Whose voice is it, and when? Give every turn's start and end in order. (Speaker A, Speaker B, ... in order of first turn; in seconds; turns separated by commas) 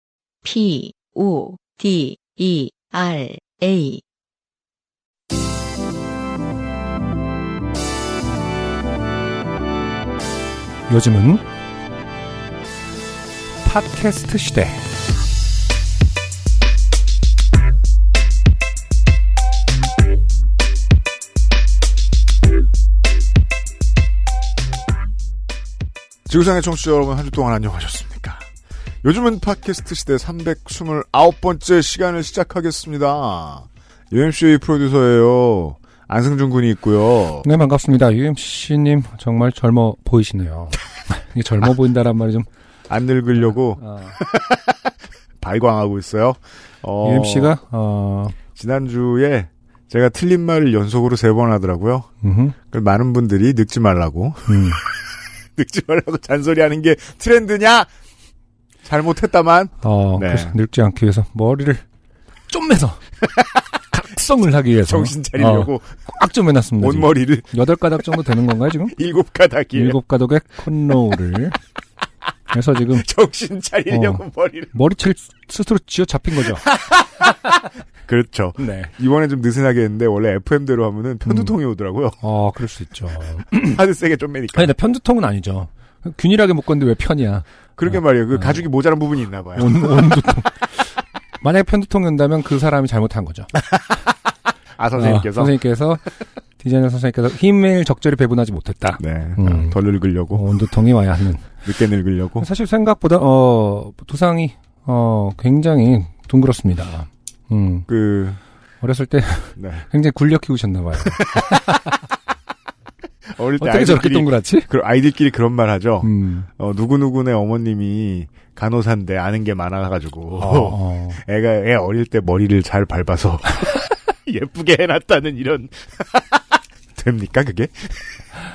Speaker A: 0.4-4.0, Speaker B: 10.9-11.4, Speaker B: 13.6-14.8, Speaker C: 26.3-28.4, Speaker C: 29.0-37.5, Speaker B: 37.4-42.5, Speaker C: 42.9-44.9, Speaker B: 43.3-44.2, Speaker C: 45.4-47.5, Speaker B: 47.0-48.3, Speaker C: 48.5-52.1, Speaker B: 52.2-52.5, Speaker C: 52.6-54.9, Speaker B: 54.5-54.8, Speaker C: 55.5-57.9, Speaker C: 58.8-60.5, Speaker B: 59.8-61.8, Speaker B: 62.5-63.0, Speaker B: 63.9-69.0, Speaker C: 64.8-66.0, Speaker C: 66.8-67.6, Speaker C: 68.9-70.0, Speaker B: 69.8-71.6, Speaker B: 72.5-73.1, Speaker C: 72.9-74.8, Speaker B: 73.9-76.6, Speaker C: 76.6-82.2, Speaker B: 78.6-78.9, Speaker B: 81.2-81.5, Speaker B: 82.2-83.8, Speaker C: 83.5-84.7, Speaker B: 84.5-88.6, Speaker C: 87.8-90.2, Speaker B: 89.6-90.8, Speaker B: 91.4-93.5, Speaker C: 93.7-94.1, Speaker C: 94.8-95.6, Speaker B: 95.0-96.0, Speaker B: 96.6-99.8, Speaker C: 99.0-100.4, Speaker B: 100.3-101.5, Speaker C: 101.6-102.5, Speaker B: 102.4-107.9, Speaker C: 107.9-108.4, Speaker B: 108.8-111.9, Speaker C: 109.6-109.9, Speaker C: 111.0-111.6, Speaker C: 113.3-128.2, Speaker B: 113.6-114.7, Speaker B: 116.0-116.5, Speaker B: 120.4-121.2